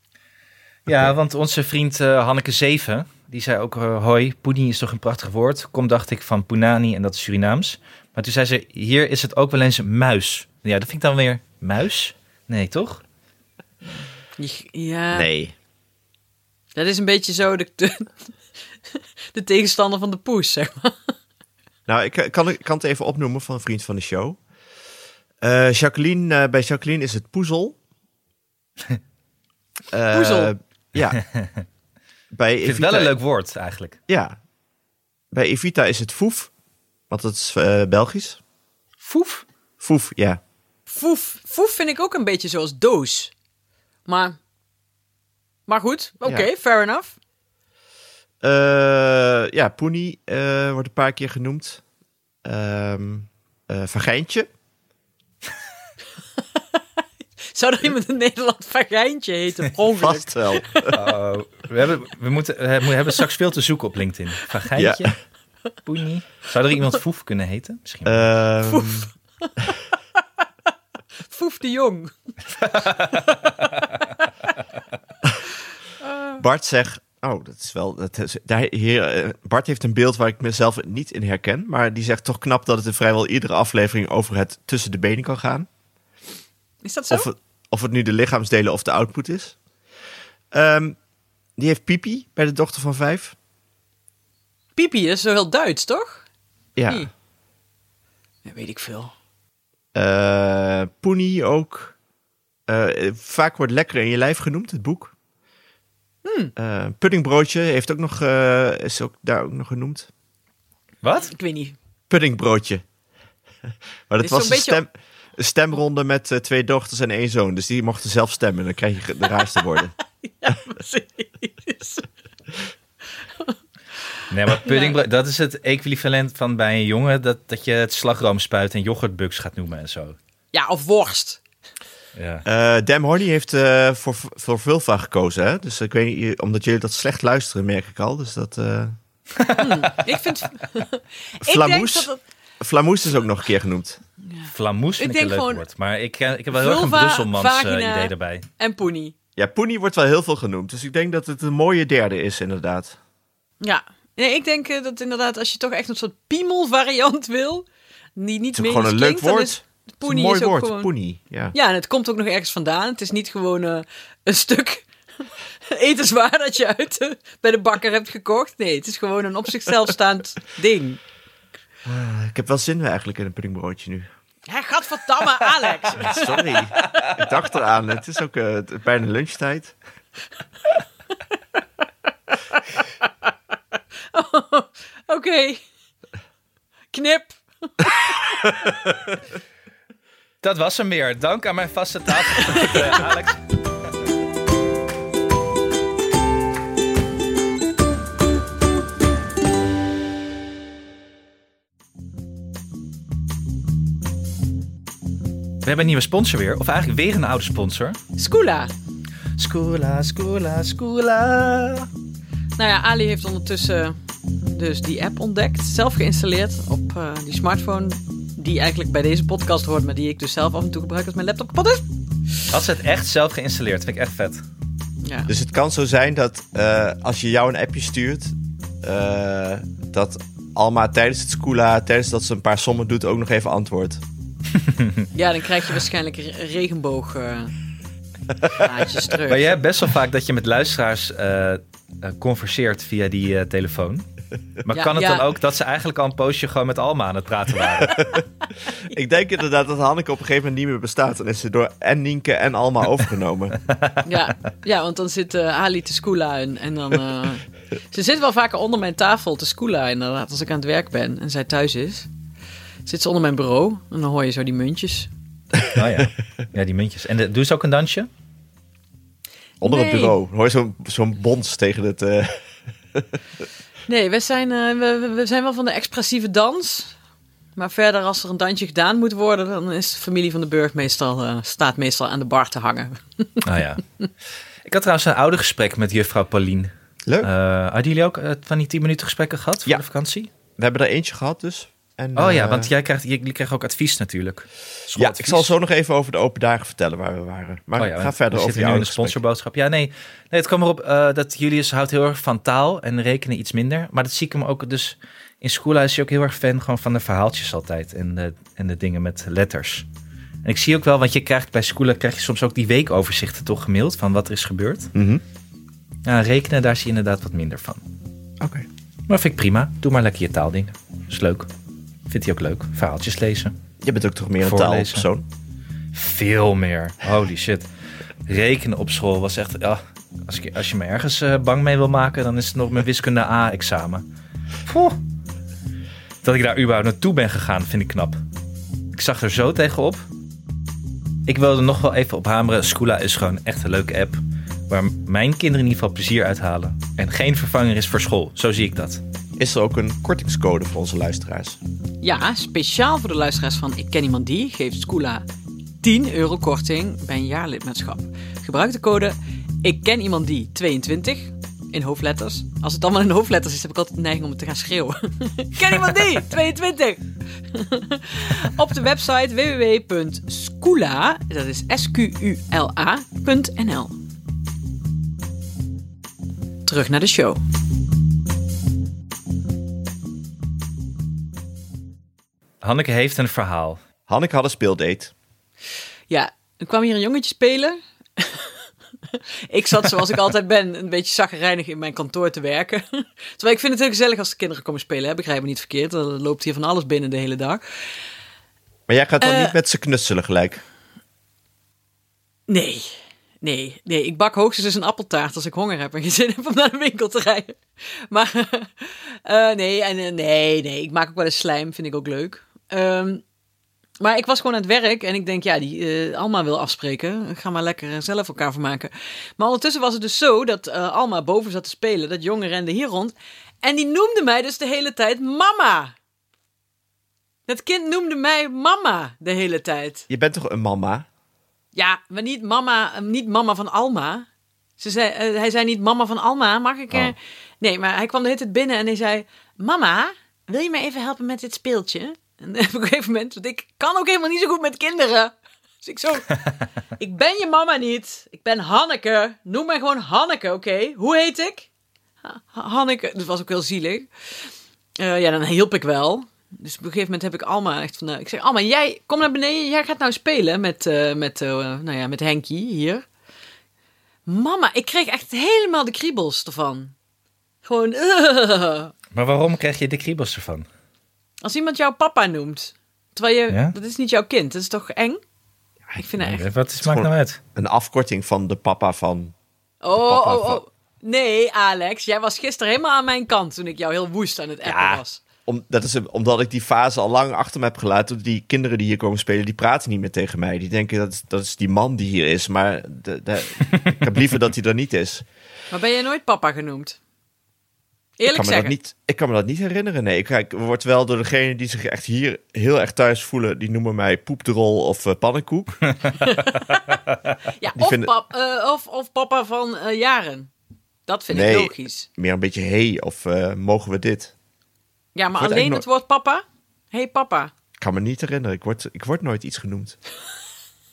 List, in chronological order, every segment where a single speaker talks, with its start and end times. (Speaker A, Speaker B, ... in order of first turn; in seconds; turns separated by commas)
Speaker A: 0.8-13.0, Speaker B: 14.4-15.3, Speaker C: 15.1-15.5, Speaker B: 16.7-18.1, Speaker B: 19.3-21.1, Speaker C: 21.9-24.4, Speaker C: 25.4-27.8, Speaker C: 29.9-31.2, Speaker B: 30.1-30.5, Speaker A: 31.0-31.6, Speaker C: 32.3-33.1, Speaker A: 32.6-34.0, Speaker C: 34.1-34.4, Speaker C: 35.3-36.5, Speaker C: 37.1-38.4, Speaker A: 39.0-39.4, Speaker C: 39.8-40.4, Speaker B: 40.9-43.3, Speaker B: 44.0-44.4, Speaker B: 45.7-47.1, Speaker C: 48.4-51.8, Speaker C: 52.4-54.5, Speaker B: 56.5-56.8, Speaker B: 57.4-60.9, Speaker C: 59.9-61.0, Speaker A: 60.9-65.1, Speaker C: 64.8-65.1, Speaker A: 65.8-68.3, Speaker C: 68.0-69.1, Speaker B: 68.7-69.5, Speaker B: 71.2-72.1, Speaker A: 72.6-73.6, Speaker B: 72.9-73.5, Speaker B: 76.0-76.4, Speaker C: 76.4-85.7, Speaker B: 86.8-87.3, Speaker C: 87.1-89.6, Speaker C: 90.5-91.0, Speaker C: 91.6-93.3, Speaker B: 94.8-96.2, Speaker C: 96.8-97.1, Speaker B: 98.4-99.1, Speaker C: 99.9-102.0, Speaker C: 102.7-105.1, Speaker B: 106.2-106.5, Speaker C: 106.5-110.1, Speaker A: 111.0-111.3, Speaker B: 111.2-111.8, Speaker C: 112.1-112.8, Speaker C: 114.1-119.9, Speaker B: 114.2-114.8, Speaker B: 120.2-122.1, Speaker A: 124.3-130.2, Speaker B: 124.5-125.0, Speaker B: 130.5-131.4, Speaker A: 132.2-132.4, Speaker C: 132.4-138.9, Speaker A: 139.3-140.1, Speaker B: 139.6-142.2, Speaker C: 141.4-144.0, Speaker B: 144.3-145.6, Speaker A: 144.4-148.4, Speaker B: 146.5-149.1, Speaker C: 149.3-153.0, Speaker B: 153.6-160.9, Speaker C: 158.5-161.5, Speaker B: 161.5-164.9, Speaker B: 165.7-171.0, Speaker C: 171.8-174.1, Speaker B: 174.5-176.6, Speaker C: 176.0-179.7, Speaker B: 184.1-185.6, Speaker B: 186.9-188.6, Speaker A: 190.4-193.4, Speaker B: 192.3-193.0, Speaker A: 205.6-208.0, Speaker B: 208.2-208.7, Speaker A: 209.4-211.9, Speaker B: 212.6-221.8, Speaker A: 222.5-224.4, Speaker B: 225.0-225.3, Speaker C: 225.3-234.0, Speaker A: 234.6-235.0, Speaker B: 235.1-237.5, Speaker B: 238.5-239.6, Speaker A: 239.2-244.0, Speaker A: 244.6-248.1, Speaker B: 244.7-245.2, Speaker B: 247.9-248.7, Speaker C: 248.8-253.6, Speaker A: 253.7-254.0, Speaker B: 254.0-262.1, Speaker B: 262.9-265.1, Speaker A: 265.7-268.1, Speaker B: 269.6-270.1, Speaker C: 269.6-272.4, Speaker B: 273.9-276.9, Speaker B: 277.6-283.4, Speaker A: 283.4-283.8, Speaker A: 284.6-290.3, Speaker C: 287.1-287.3, Speaker C: 290.6-292.7, Speaker A: 292.1-295.5, Speaker C: 294.9-299.2, Speaker A: 297.8-309.9, Speaker A: 310.4-314.9, Speaker C: 314.9-315.2, Speaker A: 316.0-317.8, Speaker C: 318.4-318.6, Speaker A: 319.1-321.5, Speaker A: 322.1-323.5, Speaker C: 323.8-325.2, Speaker A: 324.4-325.1, Speaker A: 325.9-327.7, Speaker A: 328.3-334.0, Speaker A: 334.6-335.0, Speaker A: 336.2-338.2, Speaker A: 338.9-340.1, Speaker A: 341.3-349.0, Speaker C: 349.4-351.6, Speaker B: 352.0-355.2, Speaker B: 355.8-373.9, Speaker B: 376.6-377.4, Speaker A: 382.6-383.8, Speaker C: 384.1-385.1, Speaker B: 386.1-397.6, Speaker C: 398.9-400.6, Speaker B: 399.2-399.5, Speaker B: 402.5-413.2, Speaker B: 414.0-425.9, Speaker B: 427.5-430.1, Speaker C: 430.1-431.1, Speaker B: 431.7-434.3, Speaker B: 434.8-446.4, Speaker B: 447.0-451.7, Speaker B: 452.2-454.1, Speaker B: 455.0-463.1, Speaker B: 464.2-466.9, Speaker B: 467.6-468.9, Speaker A: 469.1-470.7, Speaker B: 471.4-475.2, Speaker A: 473.5-473.7, Speaker B: 475.9-476.5, Speaker A: 476.2-477.4, Speaker C: 476.8-479.3, Speaker B: 479.8-485.2, Speaker C: 479.9-480.6, Speaker C: 484.6-495.2, Speaker B: 495.7-497.0, Speaker B: 498.2-498.7, Speaker C: 498.3-505.8, Speaker B: 506.1-510.5, Speaker C: 507.7-508.1, Speaker B: 511.1-512.1, Speaker C: 511.3-514.3, Speaker B: 515.1-517.5, Speaker C: 515.4-515.8, Speaker C: 517.8-520.0